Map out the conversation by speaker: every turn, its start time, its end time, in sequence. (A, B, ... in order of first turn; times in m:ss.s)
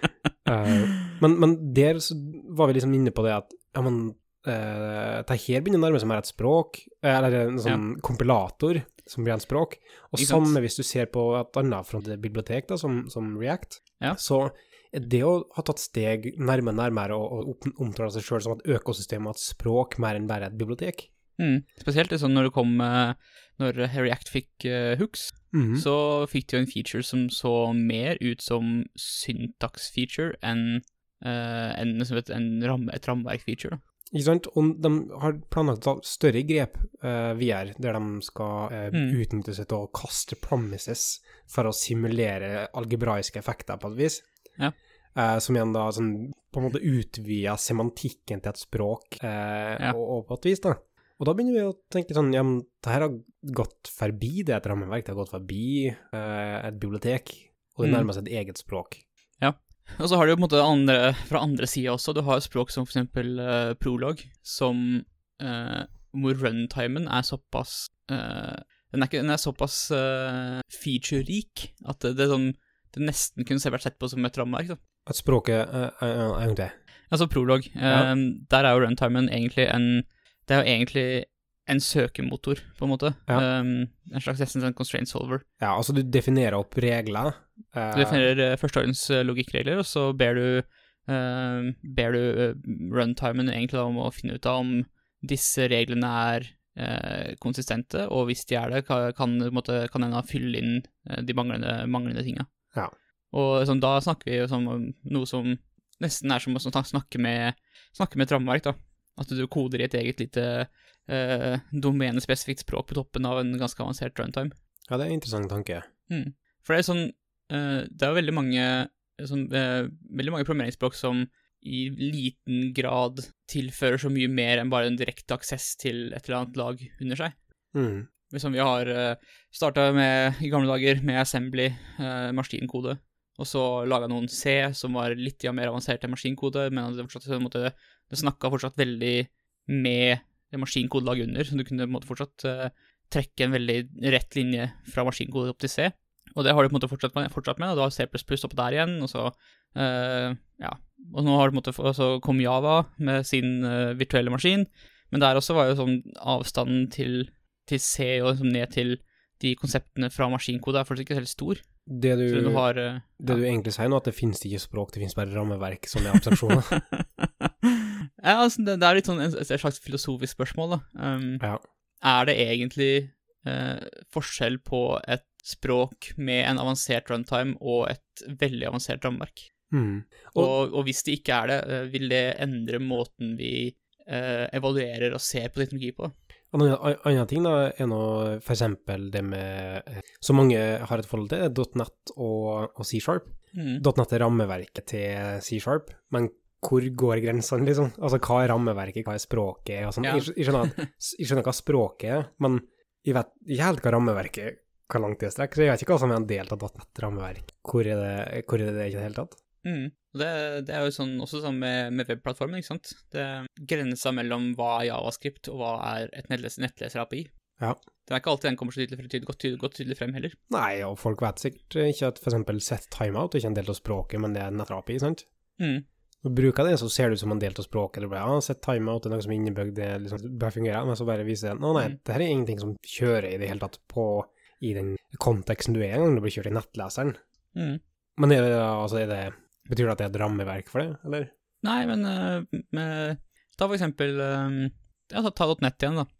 0:00.4-0:21.1 A
0:10.2-0:10.5 B
0:21.4-0:33.8 B
0:25.5-0:25.8 A
0:34.1-0:44.2 A
0:38.9-0:39.2 B
0:45.1-0:59.0 A
0:57.8-0:58.1 B
0:59.4-1:14.8 B
1:15.0-1:16.7 A
1:17.1-1:25.4 B
1:25.6-1:28.3 A
1:27.9-1:42.5 B
1:43.3-1:54.5 B
1:54.9-1:55.9 A
1:56.1-2:07.3 B
2:07.7-2:08.1 A
2:08.3-2:41.6 B
2:41.9-2:46.8 A
2:42.3-2:43.4 B
2:46.7-2:51.4 B
2:52.0-2:59.5 B
2:59.7-3:00.5 A
3:00.3-3:06.1 B
3:06.5-3:29.4 A
3:13.5-3:13.8 B
3:20.0-3:20.9 B
3:29.6-3:37.3 B
3:38.0-3:40.4 B
3:40.5-3:45.2 A
3:45.6-3:45.8 B
3:46.2-3:57.2 A
3:57.5-3:57.8 B
3:58.2-4:01.3 A
4:01.6-4:06.1 B